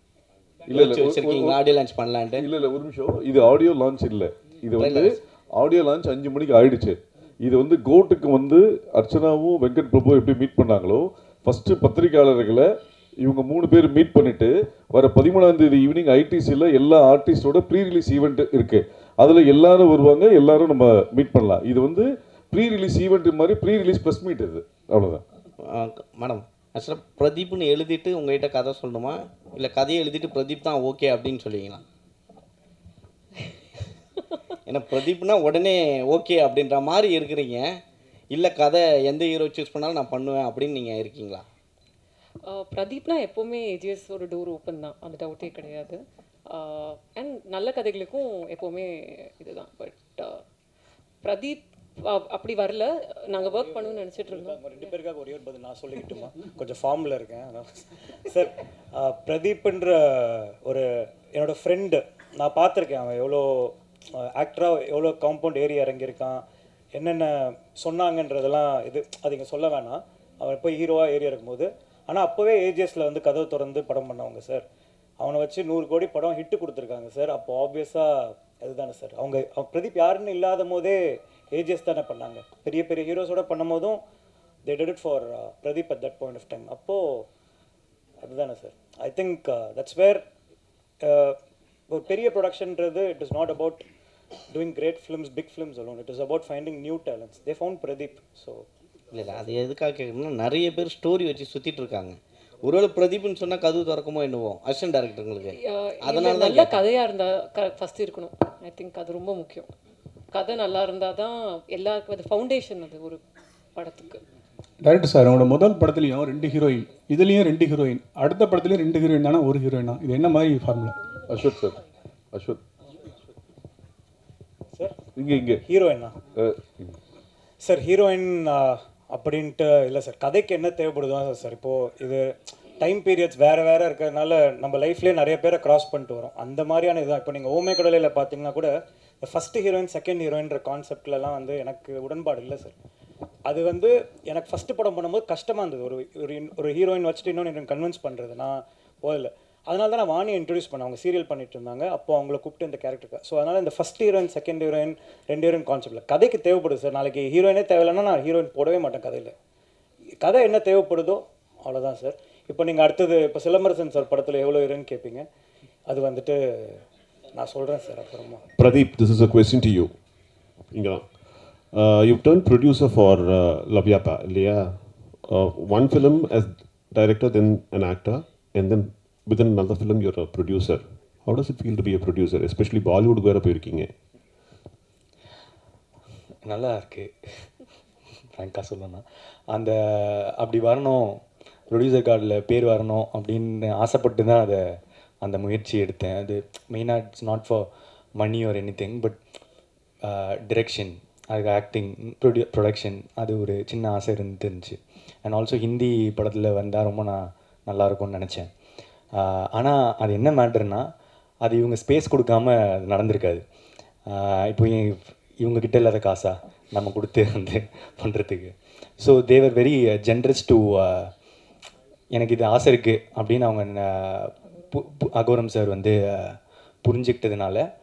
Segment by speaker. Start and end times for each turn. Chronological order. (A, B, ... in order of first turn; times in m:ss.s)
0:00.7-0:01.6 A
0:00.7-0:02.5 B
0:02.4-0:12.7 A
0:04.8-0:05.2 B
0:13.2-0:25.2 A
0:25.7-0:31.8 B
0:34.7-0:37.8 B
0:38.3-0:41.4 B
0:42.5-0:50.4 C
0:51.2-0:54.6 C
0:53.4-1:06.4 D
1:06.9-1:14.6 D
1:15.2-1:24.0 D
1:24.6-1:27.3 D
1:28.2-1:30.2 D
1:31.0-1:31.4 D
1:31.9-1:33.8 D
1:34.5-1:38.6 D
1:39.1-1:46.8 B
1:45.6-1:49.7 C
1:50.3-1:53.2 C
1:53.8-1:54.2 C
1:54.8-2:01.0 E
2:01.3-2:01.8 A
2:02.3-2:02.6 A
2:05.2-2:05.6 A
2:05.7-2:06.2 D
2:06.4-2:07.0 A
2:07.6-2:22.8 D
2:23.5-2:39.4 D
2:40.2-2:45.3 D
2:45.9-2:46.8 D
2:47.3-2:48.4 D
2:48.6-2:49.9 F
2:50.7-2:51.0 F
2:51.7-3:03.9 F
3:06.5-3:07.5 G
3:08.4-3:14.6 G
3:15.2-3:19.2 G
3:20.0-3:28.5 G
3:29.1-3:30.9 G
3:31.4-3:33.4 G
3:34.1-3:41.1 G
3:42.1-3:47.7 G